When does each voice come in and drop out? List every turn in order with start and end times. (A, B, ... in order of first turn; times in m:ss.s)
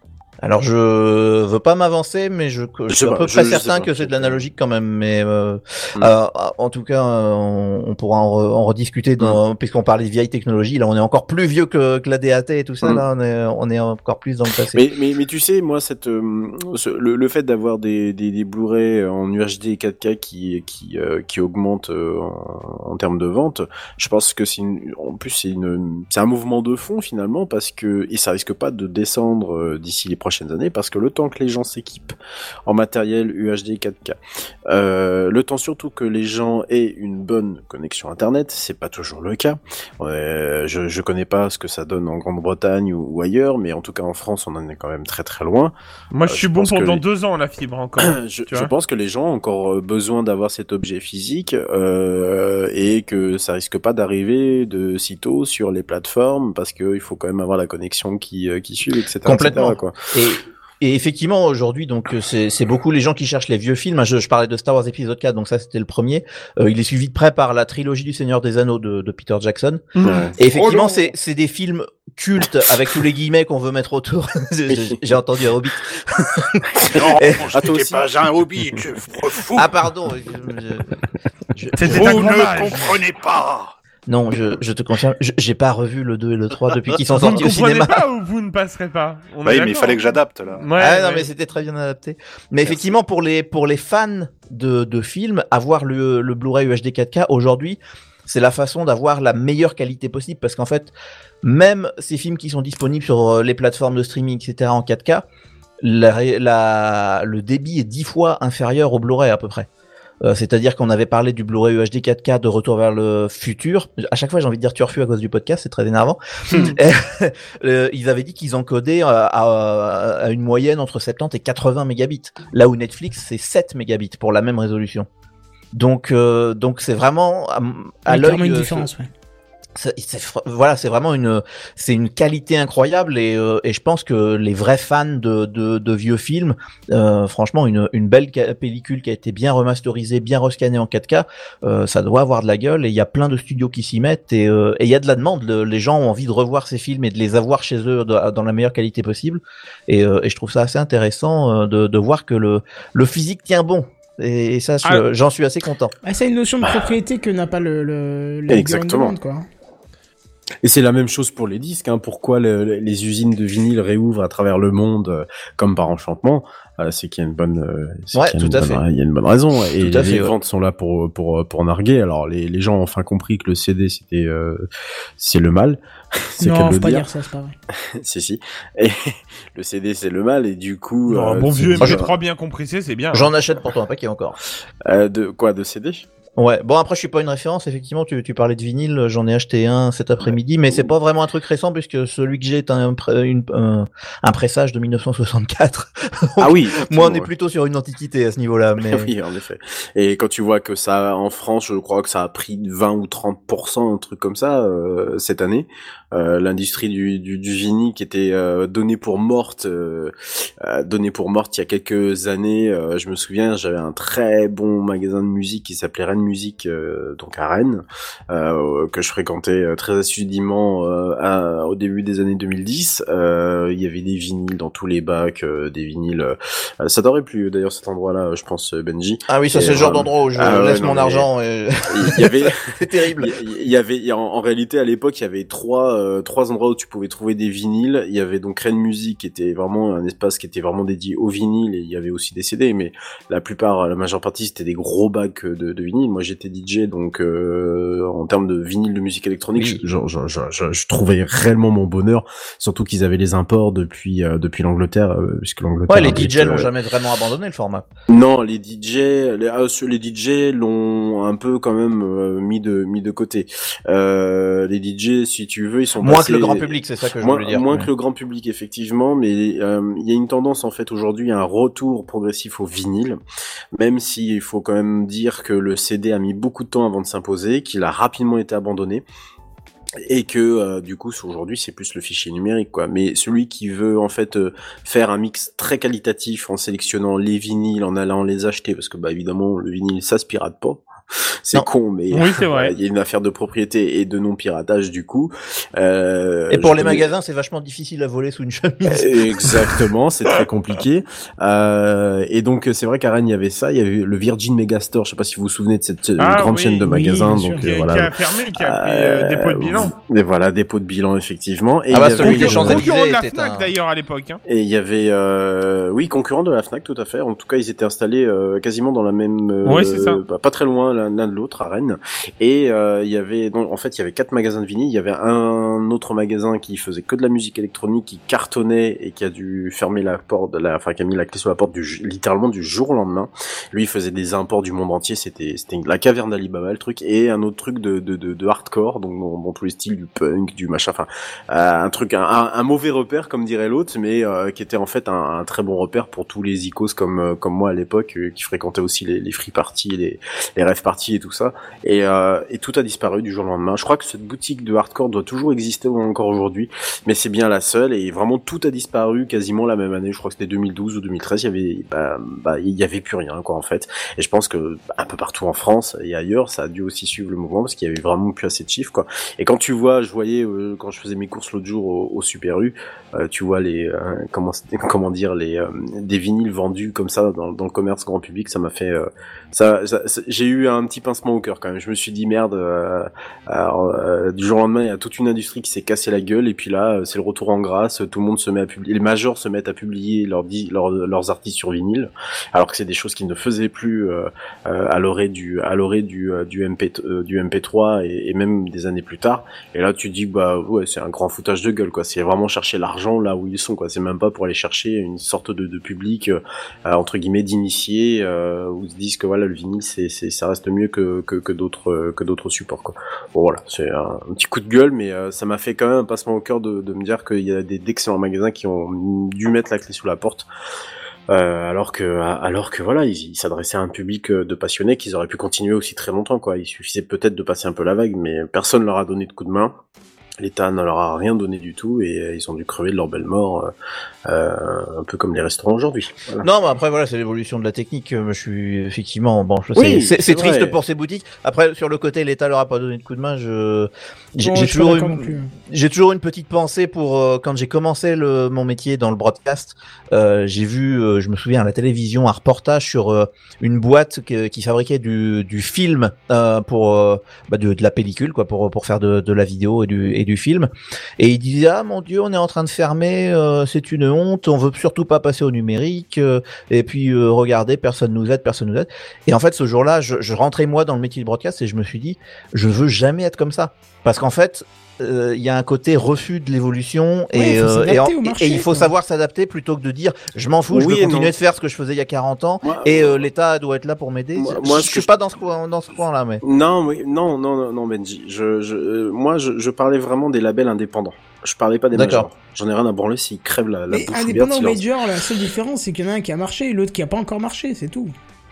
0:00.4-0:14.8 A
0:02.9-0:04.4 B
0:14.7-0:45.7 B
0:46.1-0:48.7 C
0:46.3-0:47.0 B
0:48.0-1:00.0 B
0:59.2-1:09.8 A
1:09.9-1:10.3 C
1:10.0-1:10.4 B
1:10.4-1:11.1 D
1:10.4-1:17.4 A
1:14.7-1:15.0 B
1:16.7-1:18.0 B
1:16.8-1:19.8 D
1:19.6-1:20.9 A
1:21.6-1:22.2 A
1:21.8-1:22.9 C
1:21.8-1:22.2 B
1:21.8-1:23.8 D
1:24.1-1:28.0 A
1:27.1-1:31.3 C
1:29.4-1:30.7 D
1:30.8-1:45.2 A
1:45.8-1:49.7 A
1:50.2-2:05.1 A
1:56.5-1:56.8 C
2:05.7-2:08.9 A
2:08.1-2:09.1 E
2:09.7-2:35.9 A
2:36.0-2:39.4 E
2:38.5-2:39.2 B
2:40.6-2:54.6 B
2:48.1-2:48.8 A
2:49.8-2:50.3 A
2:55.2-2:57.0 B
2:56.4-2:57.5 E
2:57.9-3:02.1 B
3:01.1-3:03.3 C
3:03.1-3:04.4 A
3:04.8-3:06.0 B
3:06.4-3:19.1 A
3:16.4-3:17.3 B
3:18.8-3:51.2 B
3:49.3-3:53.3 A
3:51.9-4:16.7 B
4:09.5-4:09.8 A
4:15.9-4:17.8 A
4:18.1-4:33.2 B
4:26.0-4:27.9 A
4:33.7-4:39.0 B
4:40.0-4:57.1 B
4:52.1-4:52.7 C
4:56.5-4:59.7 A
4:58.8-5:12.8 B
5:06.2-5:06.8 C
5:06.9-5:07.6 E
5:07.6-5:09.9 C
5:11.9-5:13.7 A
5:12.2-5:14.4 C
5:14.4-7:00.5 B
5:19.6-5:20.2 C
7:01.3-7:09.8 B
7:10.4-7:13.7 B
7:14.2-7:16.4 B
7:16.4-8:06.4 A
7:19.8-7:20.8 B
7:24.4-7:25.5 E
7:57.3-7:58.9 E
8:00.7-8:01.3 B
8:02.6-8:03.2 B
8:04.4-8:05.1 B
8:06.4-8:14.8 B
8:11.9-8:12.3 A
8:13.9-8:18.1 E